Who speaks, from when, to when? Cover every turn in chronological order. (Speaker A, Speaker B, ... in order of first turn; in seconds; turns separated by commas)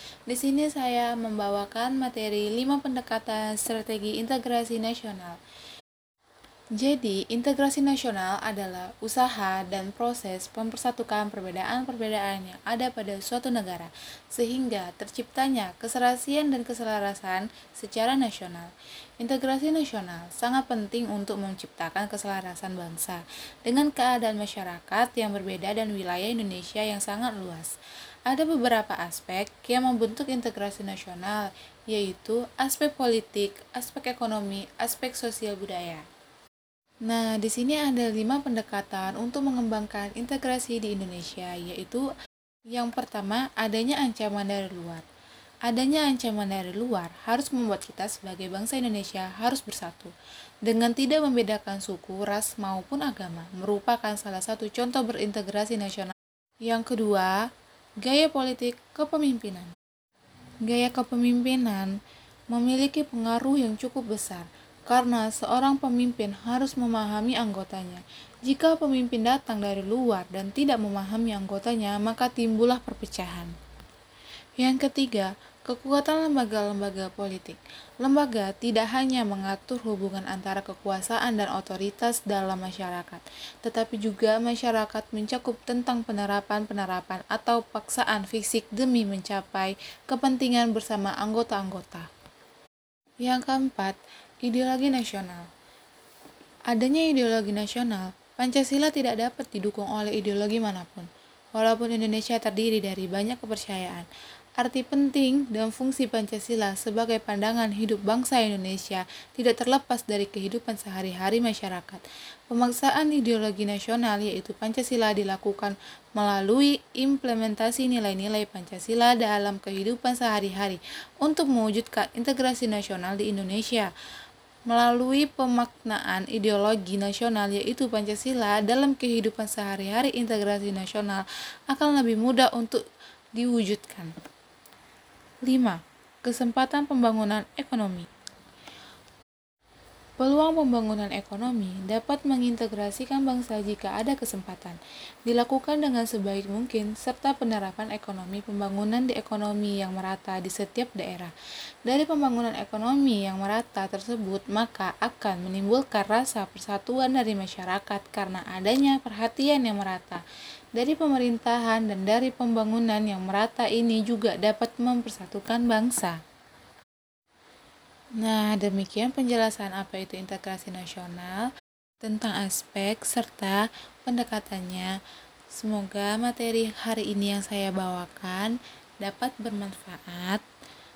Speaker A: 0.3-5.4, Speaker A: 6.8-27.7, Speaker A: 28.3-36.0, Speaker A: 37.1-42.1, Speaker A: 42.7-45.0, Speaker A: 45.7-50.1, Speaker A: 50.7-56.1, Speaker A: 56.6-57.4, Speaker A: 58.0-59.7, Speaker A: 60.6-62.0, Speaker A: 62.5-73.5, Speaker A: 74.6-92.1, Speaker A: 93.2-95.5, Speaker A: 96.7-104.1, Speaker A: 104.6-123.9, Speaker A: 124.7-132.8, Speaker A: 133.4-134.1, Speaker A: 135.4-138.1, Speaker A: 140.2-151.3, Speaker A: 151.9-160.2, Speaker A: 160.8-166.2, Speaker A: 168.2-171.5, Speaker A: 172.0-174.9, Speaker A: 175.5-180.4